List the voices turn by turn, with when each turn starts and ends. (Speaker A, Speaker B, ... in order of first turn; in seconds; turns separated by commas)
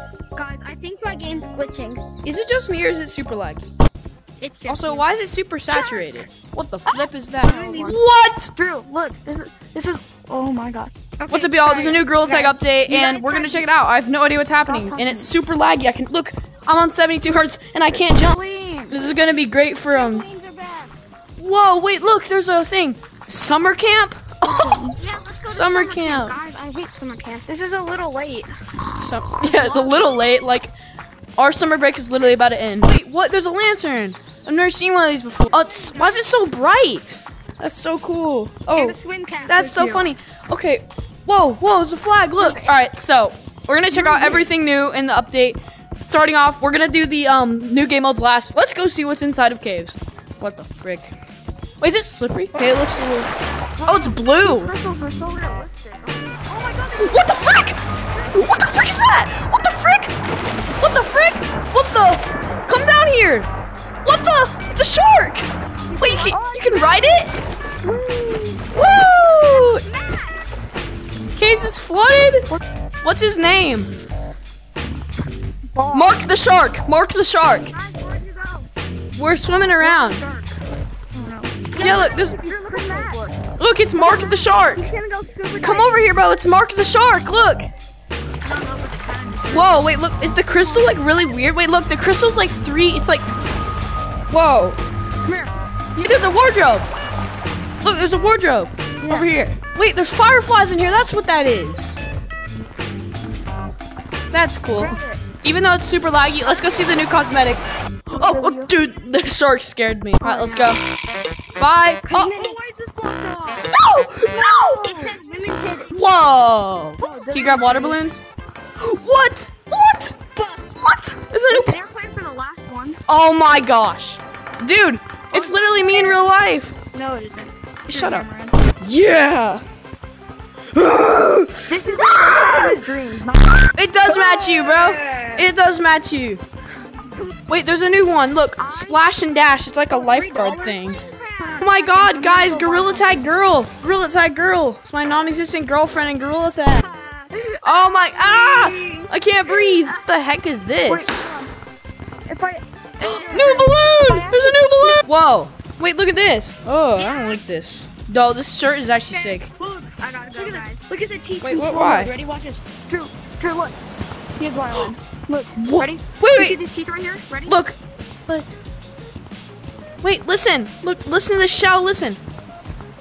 Speaker A: 0.3-2.0, Speaker B: 2.2-3.6, Speaker A: 4.4-5.1, Speaker B: 4.7-8.5, Speaker A: 5.7-6.2, Speaker C: 7.4-8.0, Speaker A: 7.5-7.9, Speaker C: 8.6-11.0, Speaker A: 11.2-12.1, Speaker B: 11.3-18.4, Speaker C: 12.2-13.7, Speaker C: 14.7-15.3, Speaker C: 17.9-19.0, Speaker B: 18.9-20.2, Speaker A: 19.9-20.9, Speaker B: 21.4-26.4, Speaker C: 24.6-25.0, Speaker A: 24.9-27.6, Speaker C: 27.5-28.5, Speaker B: 29.0-30.7, Speaker C: 29.0-29.9, Speaker A: 29.7-30.1, Speaker B: 31.4-51.1, Speaker A: 35.6-36.2, Speaker A: 38.7-40.0, Speaker C: 39.7-40.1, Speaker C: 42.4-42.8, Speaker C: 43.9-44.5, Speaker B: 51.8-53.3, Speaker C: 53.8-58.6, Speaker B: 53.8-54.7, Speaker B: 57.0-57.8, Speaker B: 58.3-60.1, Speaker B: 60.8-63.5, Speaker B: 64.0-67.3, Speaker C: 65.9-67.2, Speaker A: 66.0-66.8, Speaker C: 67.8-68.7, Speaker B: 68.7-69.8, Speaker A: 69.3-70.4, Speaker B: 71.3-72.5, Speaker B: 73.0-73.9, Speaker C: 75.8-76.1, Speaker B: 75.9-77.7, Speaker A: 77.6-78.7, Speaker B: 79.1-80.2, Speaker A: 79.8-80.5, Speaker C: 79.8-80.1, Speaker C: 81.1-83.4, Speaker A: 81.7-83.2, Speaker B: 81.8-82.4, Speaker B: 83.6-84.9, Speaker A: 84.0-86.0, Speaker B: 85.6-87.7, Speaker A: 88.4-89.8, Speaker B: 89.5-93.3, Speaker B: 94.3-94.8, Speaker C: 95.2-96.2, Speaker B: 96.0-96.9, Speaker B: 97.8-102.0, Speaker C: 99.0-99.3, Speaker B: 104.3-110.8, Speaker C: 104.8-105.2, Speaker C: 108.2-108.8, Speaker C: 110.2-110.8, Speaker B: 111.6-112.3, Speaker C: 112.1-113.7, Speaker A: 112.3-113.7, Speaker B: 113.7-115.1, Speaker A: 114.5-115.9, Speaker B: 115.9-118.2, Speaker C: 117.0-118.1, Speaker B: 118.8-120.2, Speaker C: 120.4-120.7, Speaker B: 120.8-121.8, Speaker C: 121.5-123.0, Speaker B: 123.1-126.8, Speaker C: 125.3-126.4, Speaker C: 126.9-128.6, Speaker B: 127.9-128.3, Speaker B: 128.8-129.6, Speaker B: 130.7-132.8, Speaker C: 131.7-135.4, Speaker B: 133.7-136.4, Speaker B: 137.5-141.1, Speaker C: 138.6-139.1, Speaker C: 139.9-140.7, Speaker A: 140.0-141.8, Speaker C: 141.4-143.4, Speaker B: 141.6-146.9, Speaker A: 146.8-147.5, Speaker C: 147.5-150.0, Speaker B: 147.6-151.2, Speaker C: 150.9-151.5, Speaker C: 152.3-155.0, Speaker B: 153.0-159.5, Speaker A: 157.0-157.4, Speaker A: 159.1-160.8, Speaker C: 160.3-163.8, Speaker B: 161.4-162.1, Speaker C: 164.4-167.6, Speaker B: 165.6-166.6, Speaker B: 167.5-168.6, Speaker B: 170.0-172.2